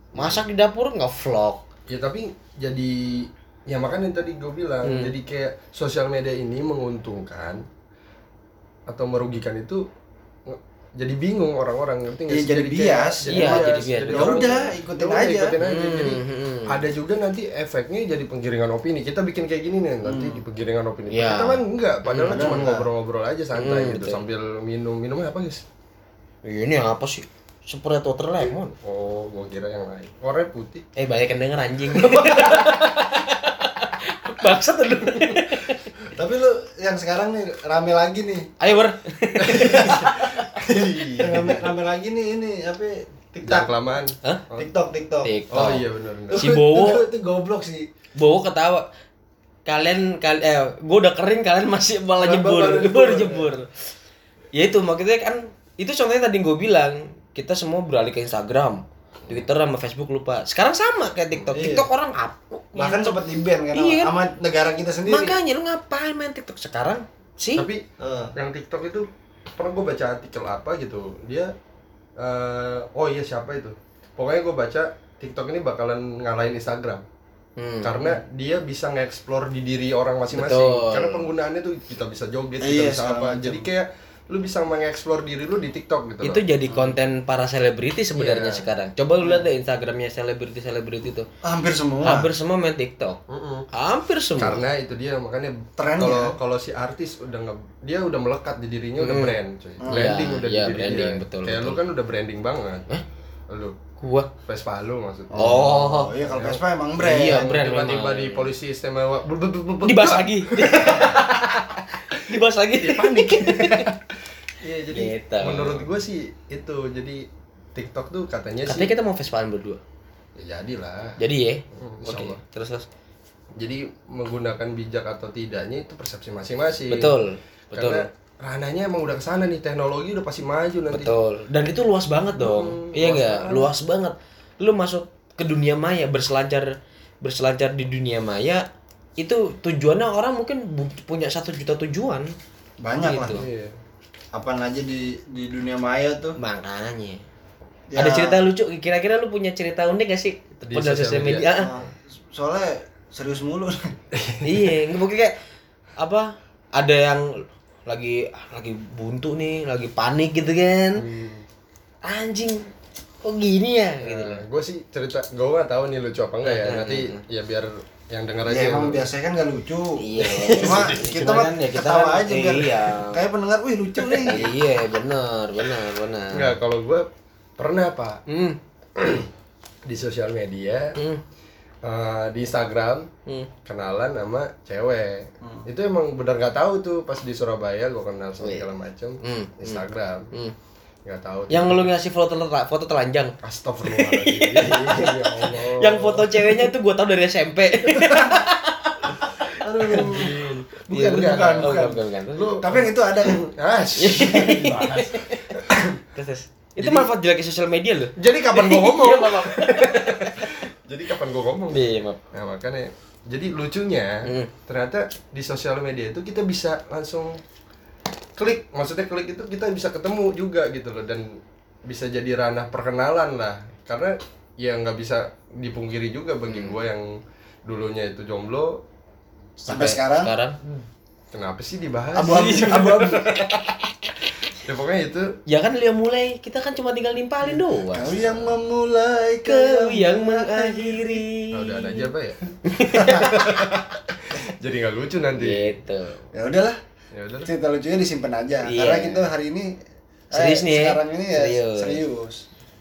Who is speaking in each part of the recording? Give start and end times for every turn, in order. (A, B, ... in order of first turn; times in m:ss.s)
0:00.2-0:01.6 A
0:00.2-0:00.4 B
0:01.9-0:07.6 B
0:04.8-0:05.1 A
0:08.9-0:09.8 B
0:10.5-0:25.6 B
0:12.3-0:15.6 C
0:13.3-0:14.5 A
0:15.6-0:16.8 A
0:20.0-0:20.4 C
0:21.1-0:22.6 A
0:22.3-0:22.9 C
0:23.6-0:24.2 A
0:26.4-0:28.7 A
0:28.8-0:30.9 B
0:31.0-0:35.9 A
0:36.1-0:38.5 C
0:38.6-0:40.3 A
0:39.4-0:41.7 B
0:39.5-0:40.2 C
0:41.2-0:43.7 C
0:43.4-0:44.7 B
0:44.6-0:45.3 C
0:45.2-0:47.0 A
0:45.5-0:46.4 B
0:46.3-0:47.9 C
0:48.2-0:48.9 A
0:49.7-0:53.7 A
0:52.2-0:53.5 B
0:54.6-1:03.2 A
1:01.5-1:01.9 C
1:02.8-1:05.4 C
1:03.7-1:04.1 A
1:05.1-1:07.7 A
1:07.6-1:07.8 B
1:08.0-1:08.3 C
1:08.4-1:11.5 B
1:12.2-1:17.1 B
1:17.6-1:18.1 A
1:17.8-1:26.4 B
1:20.3-1:21.3 A
1:22.6-1:23.7 C
1:26.2-1:31.3 A
1:28.2-1:28.6 B
1:31.4-1:32.3 C
1:32.0-1:33.2 A
1:33.3-1:33.7 B
1:33.7-1:34.6 A
1:34.4-1:42.9 B
1:35.8-1:36.4 C
1:39.0-1:41.8 A
1:39.8-1:40.1 C
1:43.5-1:43.8 B
1:44.0-1:44.3 A
1:44.5-1:45.5 B
1:45.3-1:47.5 C
1:45.3-1:46.1 A
1:46.3-1:51.3 B
1:47.0-1:48.5 A
1:49.8-1:53.9 A
1:52.2-1:58.9 B
1:54.9-1:55.9 A
1:58.7-1:59.8 A
2:00.4-2:01.2 B
2:01.2-2:02.9 A
2:01.7-2:02.4 B
2:03.6-2:07.1 B
2:06.9-2:08.1 A
2:07.7-2:11.2 B
2:10.9-2:16.7 A
2:12.4-2:13.7 B
2:17.2-2:18.6 A
2:19.2-2:22.3 A
2:22.8-2:23.4 C
2:23.0-2:23.4 A
2:23.3-2:23.8 B
2:24.3-2:26.4 C
2:26.4-2:27.2 A
2:27.9-2:28.4 C
2:28.0-2:31.7 A
2:30.7-2:31.8 B
2:31.6-2:33.9 C
2:34.1-2:34.7 B
2:34.4-2:35.4 A
2:36.0-2:41.0 A
2:41.0-2:41.4 B
2:42.0-2:42.7 A
2:43.2-2:44.4 A
2:44.0-2:49.1 B
2:46.4-2:47.2 A
2:48.5-2:54.5 C
2:50.0-2:53.2 A
2:50.6-2:51.1 B
2:54.2-2:56.5 A
2:56.3-2:57.1 B
2:57.6-2:58.2 B
2:58.3-2:58.6 A
2:59.0-2:59.3 B
2:59.9-3:01.0 B
3:01.0-3:01.2 A
3:01.8-3:03.1 B
3:03.6-3:10.3 B
3:08.4-3:08.7 A
3:09.2-3:10.6 A
3:11.1-3:11.9 B
3:11.5-3:20.3 A
3:13.4-3:16.7 B
3:19.6-3:20.3 C
3:19.8-3:21.8 B
3:20.9-3:22.8 A
3:20.9-3:22.0 C
3:22.4-3:25.8 B
3:22.6-3:23.4 C
3:24.0-3:25.6 A
3:26.1-3:30.5 A
3:28.2-3:37.4 B
3:31.7-3:32.2 A
3:34.2-3:34.5 A
3:38.4-3:47.1 B
3:46.5-3:46.8 A
3:47.7-3:48.8 B
3:49.6-3:50.6 A
3:49.7-3:50.3 C
3:51.3-3:53.4 B
3:52.2-3:53.2 C
3:52.3-3:54.1 A
3:54.6-3:55.4 B
3:55.5-3:58.1 A
3:57.5-4:01.2 C
3:58.1-3:58.6 B
3:59.4-4:02.1 A
4:01.5-4:02.4 B
4:02.7-4:03.6 A
4:02.9-4:03.6 C
4:03.2-4:05.7 B
4:05.4-4:06.2 A
4:06.3-4:06.8 C
4:07.1-4:07.5 B
4:07.5-4:09.7 C
4:08.6-4:09.3 A
4:10.3-4:12.4 C
4:10.3-4:12.0 A